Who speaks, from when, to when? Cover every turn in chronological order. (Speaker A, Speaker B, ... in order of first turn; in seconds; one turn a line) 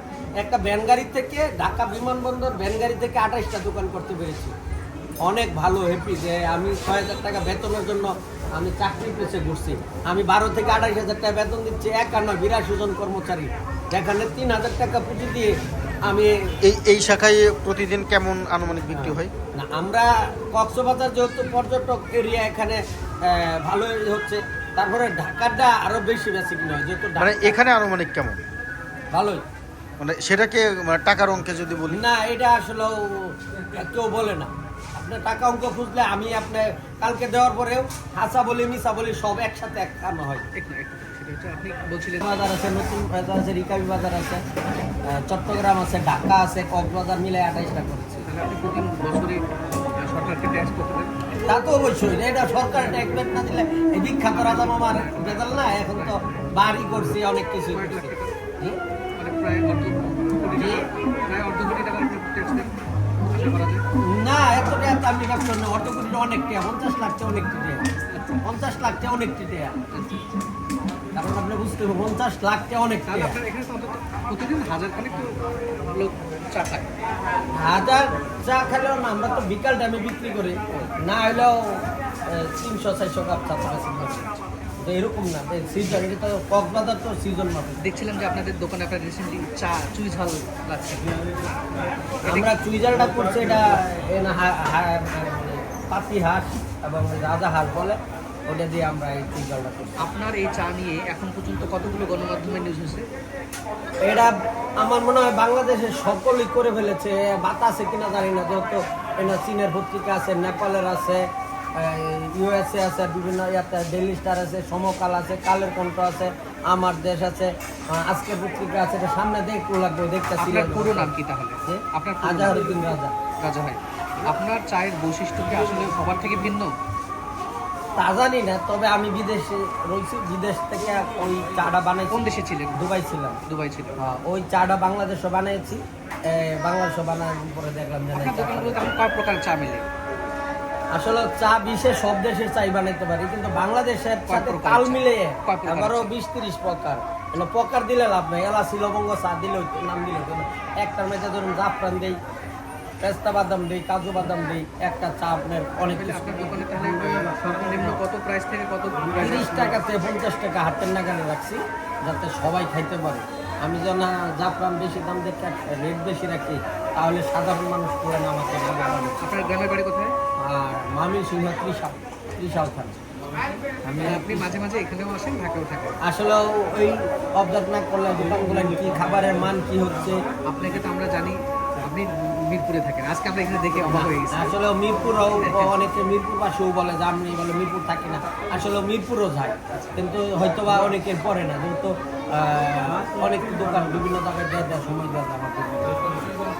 Speaker A: 0.4-4.5
Speaker A: 5.2-15.5
Speaker A: 16.0-16.3
Speaker B: 16.6-19.3
Speaker A: 18.9-27.6
Speaker B: 27.2-28.4
Speaker A: 29.1-29.4
Speaker B: 30.0-32.0
Speaker A: 31.9-40.5
Speaker C: 40.5-42.2
Speaker A: 42.2-44.4
Speaker A: 45.1-48.3
Speaker C: 48.2-49.4
Speaker C: 50.0-51.1
Speaker A: 51.5-58.8
Speaker C: 54.3-56.2
Speaker C: 57.7-58.3
Speaker C: 59.2-63.8
Speaker A: 60.5-60.9
Speaker A: 64.0-67.8
Speaker A: 68.4-69.8
Speaker C: 69.9-70.2
Speaker A: 71.1-73.4
Speaker C: 73.0-76.9
Speaker A: 77.5-84.2
Speaker C: 84.0-84.4
Speaker A: 84.8-87.8
Speaker C: 87.8-91.2
Speaker C: 92.2-92.5
Speaker A: 92.2-100.1
Speaker C: 100.0-103.1
Speaker A: 104.0-121.1
Speaker C: 120.4-122.8
Speaker A: 121.7-123.1
Speaker C: 123.4-126.7
Speaker A: 128.0-132.2
Speaker C: 132.1-132.8
Speaker A: 132.8-133.4
Speaker C: 133.4-134.0
Speaker A: 134.0-139.0
Speaker C: 138.1-139.8
Speaker A: 140.9-152.2
Speaker C: 144.3-146.1
Speaker A: 153.0-156.7
Speaker C: 155.9-159.8
Speaker A: 159.2-169.2
Speaker C: 169.2-170.2
Speaker A: 170.4-173.0
Speaker A: 173.8-174.6
Speaker C: 174.0-176.0
Speaker A: 176.0-180.2
Speaker C: 180.4-184.5
Speaker A: 183.8-196.3
Speaker C: 185.3-185.7
Speaker C: 189.7-190.0